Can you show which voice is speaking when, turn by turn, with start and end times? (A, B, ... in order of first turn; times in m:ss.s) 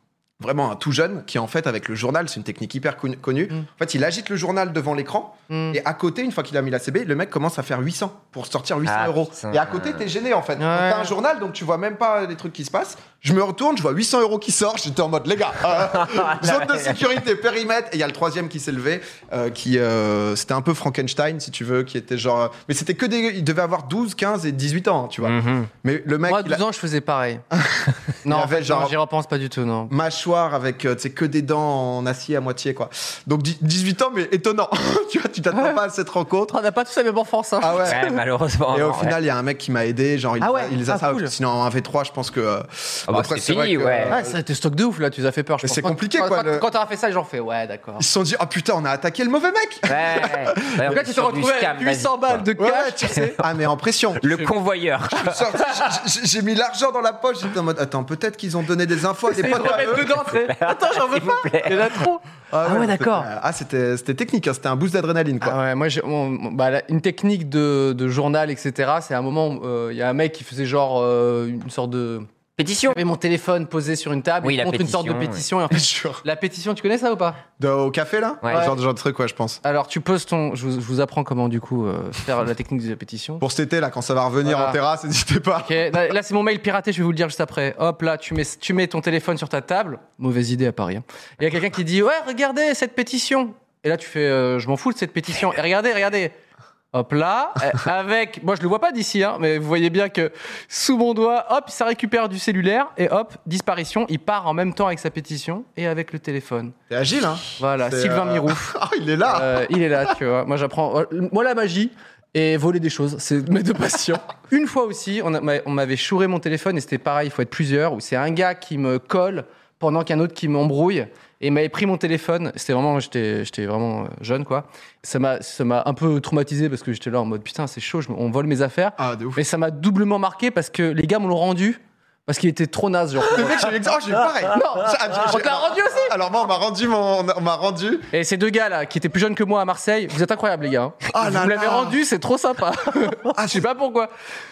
0:00.4-0:26.6 A
0:05.5-0:05.8 B
0:08.9-0:10.0 C
0:10.6-0:11.1 B
0:15.9-0:17.0 C
0:25.2-0:25.7 C
0:26.3-0:27.4 B
0:27.5-0:29.0 A
0:28.2-0:29.9 B
0:29.9-0:36.6 A
0:35.5-0:35.8 B
0:36.5-0:38.2 B
0:37.6-0:38.0 A
0:37.8-0:39.2 C
0:38.7-0:44.4 A
0:40.4-0:41.3 B
0:43.1-0:44.2 C
0:44.1-0:48.0 B
0:45.6-0:46.7 A
0:48.0-0:50.9 A
0:49.9-0:52.4 C
0:50.8-0:53.4 B
0:52.6-0:54.2 A
0:54.2-0:55.4 C
0:55.1-1:00.1 A
0:55.6-0:55.9 B
0:59.3-1:03.3 B
0:59.6-1:02.0 C
1:02.5-1:05.6 A
1:05.4-1:12.3 B
1:12.6-1:13.0 C
1:12.9-1:17.4 B
1:14.4-1:15.4 C
1:15.7-1:16.2 A
1:17.6-1:19.6 A
1:19.6-1:23.4 B
1:23.4-1:25.9 A
1:24.4-1:24.8 B
1:25.6-1:36.4 B
1:36.9-1:46.8 B
1:46.9-1:49.6 A
1:47.6-2:13.8 B
2:09.0-2:09.4 A
2:13.3-2:18.1 A
2:14.5-2:16.1 B
2:18.1-2:24.1 B
2:21.1-2:22.0 A
2:23.4-2:23.6 A